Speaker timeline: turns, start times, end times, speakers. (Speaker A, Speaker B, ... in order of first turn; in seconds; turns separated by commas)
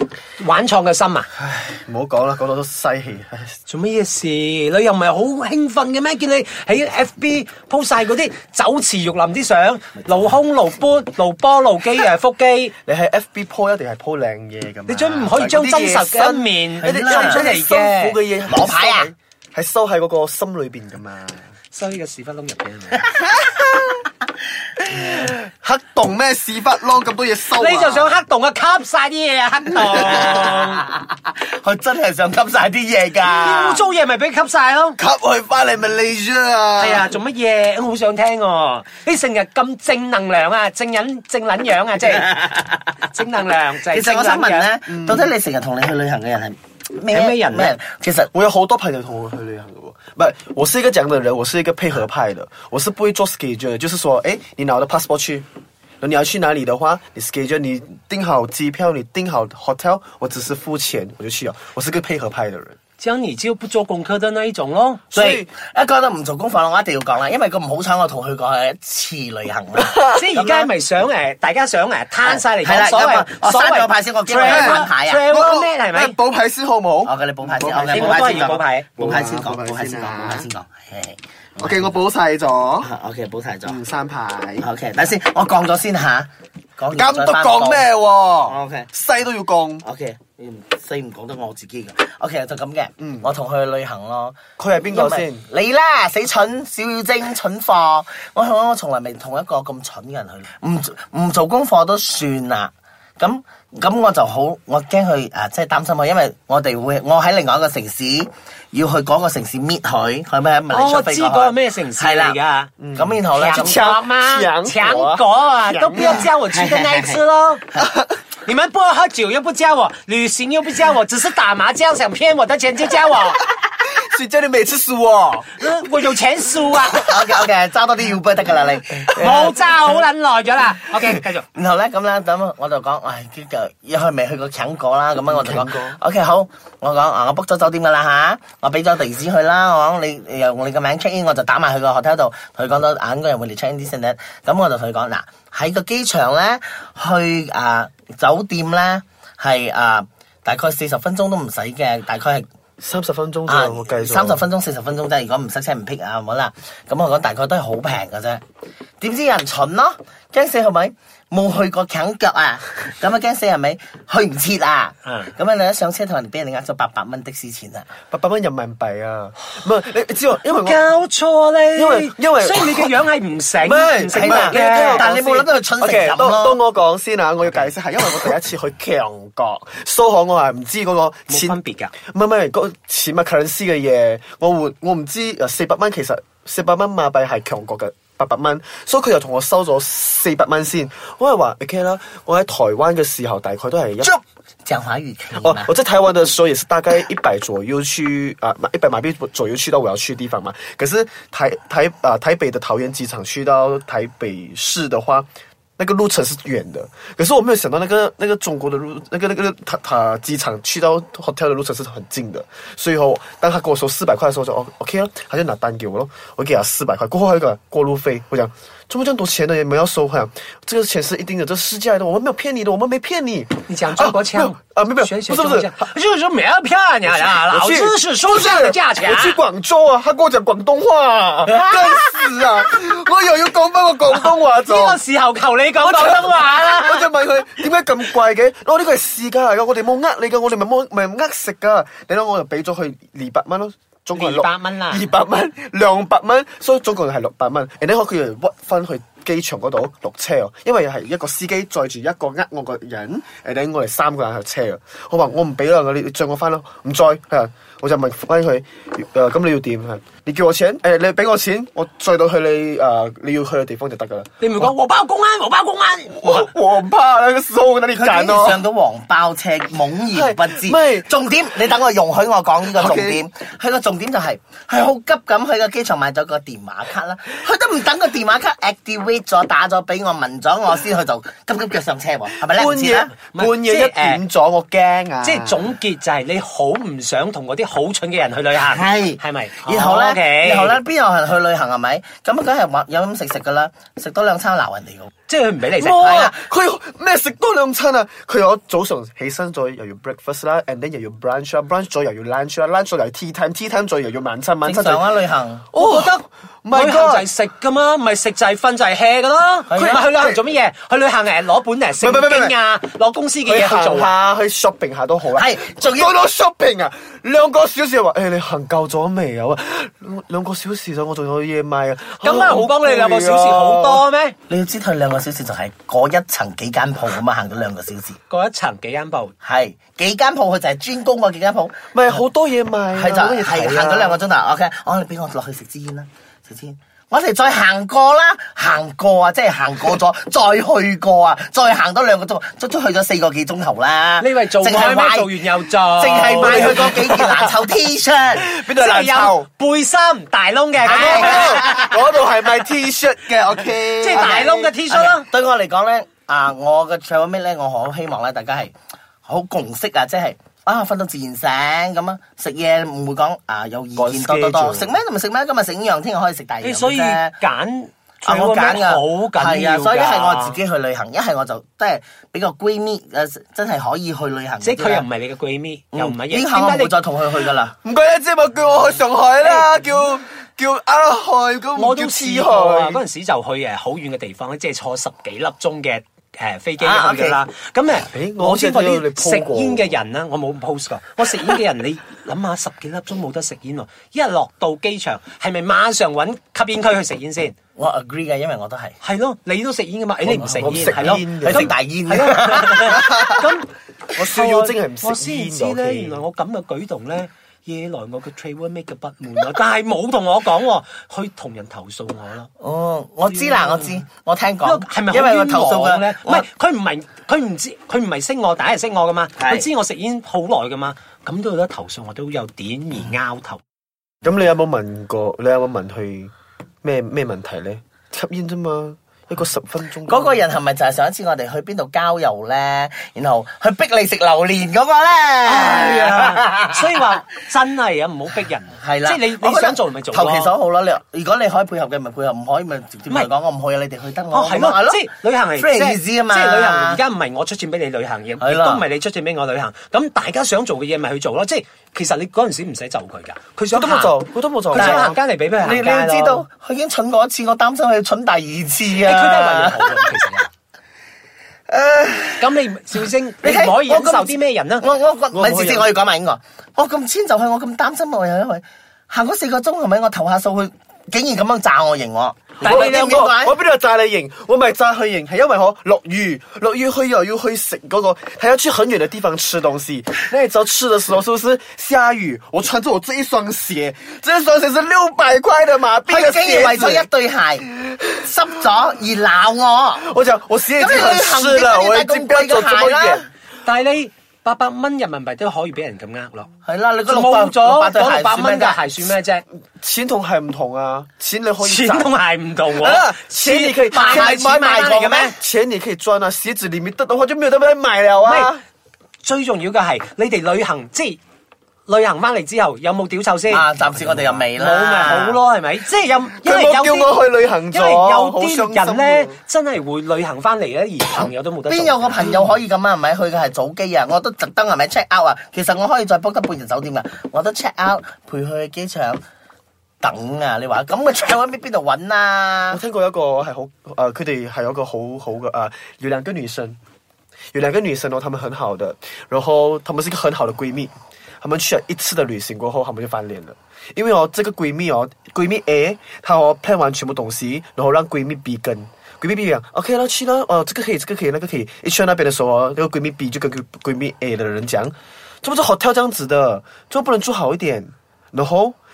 Speaker A: 0.4-1.3, Speaker B: 1.4-3.6, Speaker A: 3.7-12.7, Speaker B: 12.8-21.5, Speaker A: 14.9-18.2, Speaker C: 16.8-17.5, Speaker C: 18.5-19.1, Speaker A: 21.7-23.2, Speaker B: 24.9-28.1, Speaker A: 27.5-30.8, Speaker C: 29.9-33.8, Speaker A: 33.2-35.0, Speaker B: 35.0-37.1, Speaker A: 36.8-44.7, Speaker C: 43.9-48.3, Speaker B: 44.9-45.3, Speaker A: 47.1-47.7, Speaker B: 48.3-55.5, Speaker B: 56.0-62.8, Speaker A: 63.0-65.1, Speaker B: 65.1-65.5, Speaker C: 65.1-70.1, Speaker B: 69.9-70.7, Speaker A: 70.1-76.2, Speaker C: 72.2-75.2, Speaker B: 74.4-78.4, Speaker C: 77.0-81.9, Speaker A: 77.8-78.9, Speaker B: 79.0-80.5, Speaker B: 81.6-82.9, Speaker C: 82.8-83.8, Speaker B: 83.6-84.7, Speaker C: 84.6-87.9, Speaker B: 86.9-89.8, Speaker C: 88.5-88.9, Speaker C: 89.8-94.4, Speaker B: 93.0-93.3, Speaker B: 94.6-95.4, Speaker C: 94.9-112.4, Speaker A: 110.7-112.7, Speaker B: 112.8-116.2, Speaker C: 112.9-113.8, Speaker A: 113.3-117.6, Speaker C: 116.0-117.2, Speaker B: 117.8-118.1, Speaker A: 118.5-123.4, Speaker B: 123.7-125.5, Speaker A: 125.6-127.2, Speaker C: 127.0-129.2, Speaker B: 129.0-130.1, Speaker A: 129.1-131.4, Speaker C: 131.5-152.4, Speaker B: 135.3-136.0, Speaker B: 152.8-154.4, Speaker C: 153.5-158.4, Speaker C: 159.0-167.9, Speaker B: 168.1-170.8, Speaker A: 170.4-175.1, Speaker B: 171.8-172.9, Speaker B: 173.6-181.6, Speaker C: 174.1-176.6, Speaker A: 181.3-181.9, Speaker B: 182.1-194.1, Speaker C: 194.0-195.7, Speaker B: 195.3-205.3, Speaker B: 205.8-225.9, Speaker A: 223.7-229.4, Speaker B: 227.1-235.0, Speaker A: 231.5-232.4, Speaker A: 234.1-237.1, Speaker B: 235.8-264.7, Speaker A: 244.2-245.1, Speaker A: 264.4-266.5, Speaker B: 266.2-268.6, Speaker C: 267.9-283.1, Speaker B: 270.1-271.1, Speaker B: 272.7-273.2, Speaker B: 282.5-285.7, Speaker A: 283.3-284.2, Speaker A: 285.2-290.8, Speaker C: 288.6-295.1, Speaker A: 295.3-296.3, Speaker B: 295.8-305.2, Speaker C: 296.0-296.4, Speaker C: 304.6-305.7, Speaker B: 305.7-307.3, Speaker A: 305.7-314.1, Speaker C: 309.7-310.1, Speaker B: 309.8-310.4, Speaker B: 312.0-312.5, Speaker B: 313.4-324.0, Speaker C: 315.3-316.1, Speaker A: 322.2-324.4, Speaker C: 324.5-328.2, Speaker A: 328.3-329.3, Speaker C: 329.4-332.2, Speaker B: 331.9-334.2, Speaker C: 332.9-348.5, Speaker A: 344.2-347.1, Speaker B: 346.4-347.5, Speaker B: 348.3-349.5, Speaker A: 348.6-351.8, Speaker C: 350.8-351.9, Speaker B: 350.9-354.5, Speaker A: 354.0-355.2, Speaker C: 354.1-358.7, Speaker C: 359.2-367.4, Speaker B: 363.9-365.0, Speaker A: 366.6-370.6, Speaker C: 368.2-375.0, Speaker A: 374.6-376.9, Speaker C: 375.9-377.8, Speaker B: 377.8-383.0, Speaker A: 379.4-379.7, Speaker A: 381.8-397.5, Speaker C: 386.8-387.4, Speaker B: 388.1-389.9, Speaker C: 397.8-398.9, Speaker A: 399.0-412.5, Speaker C: 400.2-403.4, Speaker B: 400.6-401.7, Speaker B: 403.0-403.4, Speaker B: 404.1-406.2, Speaker C: 412.6-416.4, Speaker A: 413.2-414.0, Speaker A: 414.6-423.6, Speaker C: 419.4-419.7, Speaker B: 424.2-426.3, Speaker B: 426.8-430.4, Speaker C: 430.1-436.7, Speaker A: 435.4-440.5, Speaker C: 438.8-445.1, Speaker A: 444.3-454.2, Speaker C: 445.6-447.0, Speaker C: 448.4-448.8, Speaker B: 453.7-455.2, Speaker A: 454.7-456.4, Speaker C: 454.7-460.1, Speaker A: 459.0-460.5, Speaker C: 461.7-462.5, Speaker A: 462.4-464.8, Speaker C: 463.4-473.6, Speaker B: 465.3-465.9, Speaker A: 472.6-473.1, Speaker B: 472.6-487.1, Speaker C: 486.0-490.1, Speaker B: 490.0-493.3, Speaker C: 490.7-493.2, Speaker A: 493.6-496.5, Speaker C: 496.6-498.8, Speaker A: 497.1-499.4, Speaker B: 499.8-502.1, Speaker A: 501.6-505.4, Speaker B: 502.7-504.7, Speaker C: 503.9-505.3, Speaker B: 505.3-508.6, Speaker A: 508.2-508.5, Speaker A: 509.2-511.2, Speaker A: 511.9-517.2, Speaker C: 513.5-515.4, Speaker B: 516.4-519.4, Speaker A: 517.7-522.6, Speaker C: 521.1-529.2, Speaker C: 530.0-532.8, Speaker B: 532.7-536.8, Speaker B: 537.5-558.8